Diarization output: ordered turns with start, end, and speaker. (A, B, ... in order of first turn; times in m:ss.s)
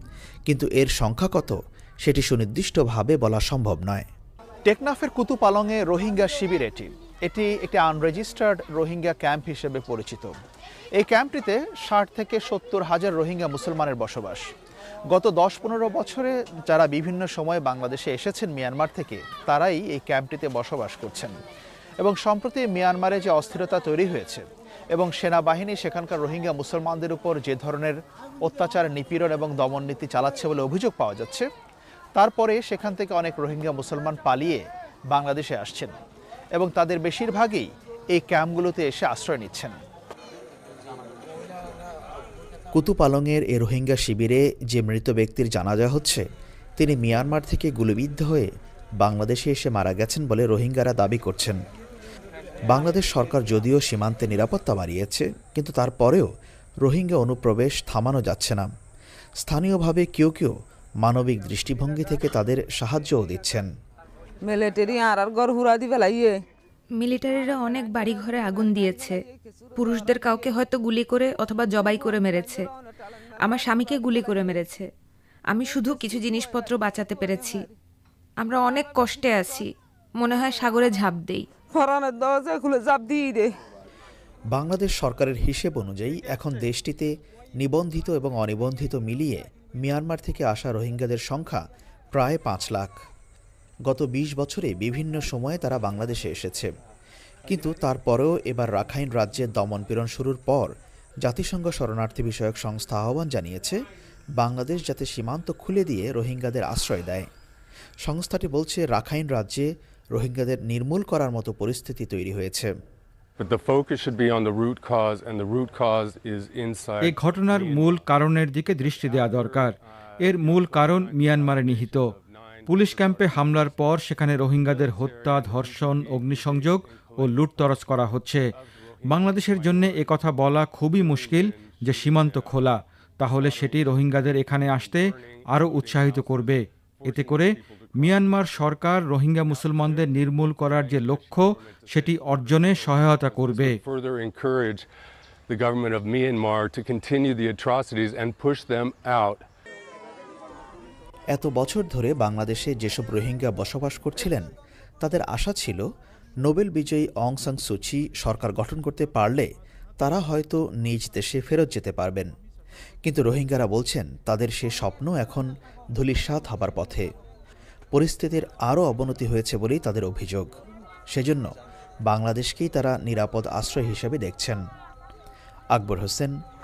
0:00.5-0:04.0 A
0:04.7-0:10.3 A
0:11.0-0:14.4 A
0:15.1-0:21.3 A
0:22.0-0:31.4 A
0:32.2-0:36.0 A
0:36.6-0:39.8 A
0:42.7-0:46.2 A
0:46.8-0:48.5 A
0:49.0-0:51.6 A
0:52.7-0:56.3 A
0:56.8-0:58.7 A
0:59.4-1:03.6 A
1:04.4-1:06.3 B
1:07.0-1:09.1 C
1:09.8-1:12.6 C
1:13.5-1:14.8 C
1:15.5-1:17.6 C
1:18.4-1:19.7 C
1:20.2-1:21.4 C
1:21.7-1:23.5 B
1:24.5-1:31.6 A
1:32.1-1:32.9 A
1:33.9-1:36.7 A
1:37.5-1:40.7 A
1:41.2-1:43.8 A
1:44.4-1:47.3 A
1:48.0-1:52.7 A
1:53.4-1:58.1 D
1:57.0-2:02.1 E
1:58.8-2:04.0 D
2:02.6-2:08.5 E
2:04.6-2:07.8 D
2:08.6-2:12.6 D
2:09.0-2:23.8 E
2:13.3-2:18.7 D
2:19.5-2:24.8 D
2:25.5-2:29.4 D
2:31.3-2:34.5 A
2:35.0-2:35.8 A
2:36.4-2:39.5 A
2:40.0-2:42.3 A
2:43.0-2:45.5 A
2:46.0-2:47.0 A
2:47.9-2:50.5 A
2:51.1-2:51.5 A
2:52.1-2:54.6 A
2:55.7-2:56.3 A